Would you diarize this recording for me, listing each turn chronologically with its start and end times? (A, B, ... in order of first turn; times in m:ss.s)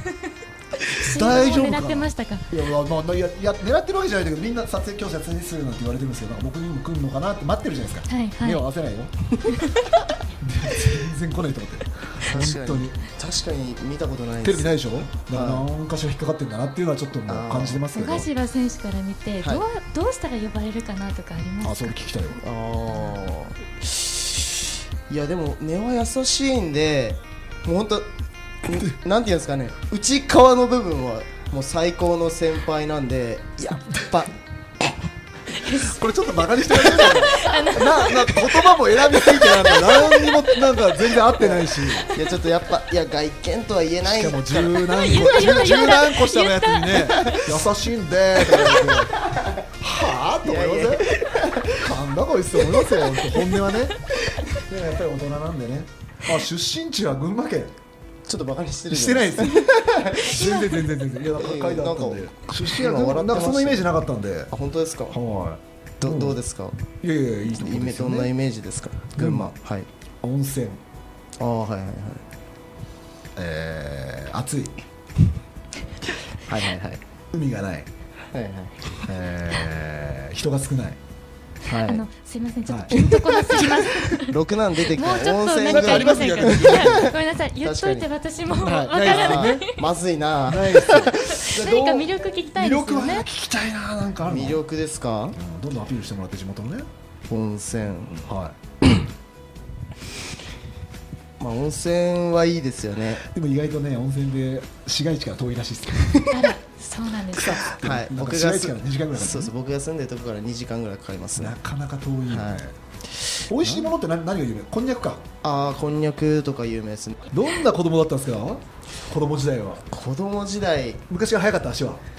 0:00.9-0:02.5 A
0:01.0-0:09.1 B
0:08.1-0:08.6 A
0:09.3-0:09.6 C
0:10.4-0:13.0 B
0:12.2-0:15.7 C
0:14.4-0:18.3 B
0:17.3-0:17.8 C
0:17.9-0:22.0 A
0:21.6-0:22.4 B
0:22.4-0:28.1 C
0:28.6-0:34.3 C
0:35.6-0:35.9 A
0:35.7-0:42.2 B
0:36.7-0:38.8 A
0:39.4-0:40.5 A
0:41.4-0:45.1 C
0:44.0-0:49.2 B
0:44.8-0:47.5 A
0:48.4-0:49.7 C
0:49.8-0:54.0 B
0:50.4-0:51.9 C
0:54.6-0:57.8 B
0:58.3-1:00.8 C
0:58.9-1:04.5 B
1:01.4-1:05.2 C
1:05.1-1:06.4 B
1:06.0-1:06.8 C
1:07.0-1:08.3 B
1:07.4-1:09.9 C
1:09.1-1:09.6 B
1:10.2-1:10.8 B
1:11.4-1:12.2 C
1:13.4-1:14.8 B
1:16.5-1:17.0 C
1:17.3-1:17.9 B
1:18.3-1:19.0 C
1:19.1-1:21.0 B
1:21.6-1:22.0 C
1:21.7-1:24.4 A
1:22.7-1:23.0 B
1:22.9-1:28.1 C
1:24.9-1:29.8 A
1:25.6-1:27.2 B
1:28.5-1:29.6 B
1:29.0-1:31.2 C
1:30.5-1:34.6 B
1:31.1-1:33.3 A
1:34.2-1:35.4 C
1:35.4-1:36.9 B
1:37.3-1:38.3 C
1:38.2-1:38.6 B
1:41.4-1:43.2 C
1:43.2-1:46.5 B
1:46.3-1:47.6 A
1:47.3-1:49.5 B
1:47.8-1:51.6 C
1:51.4-1:52.8 B
1:52.3-1:53.9 C
1:53.5-1:55.2 B
1:55.4-1:57.3 C
1:57.3-1:59.8 B
1:59.9-2:01.1 C
2:01.1-2:02.0 B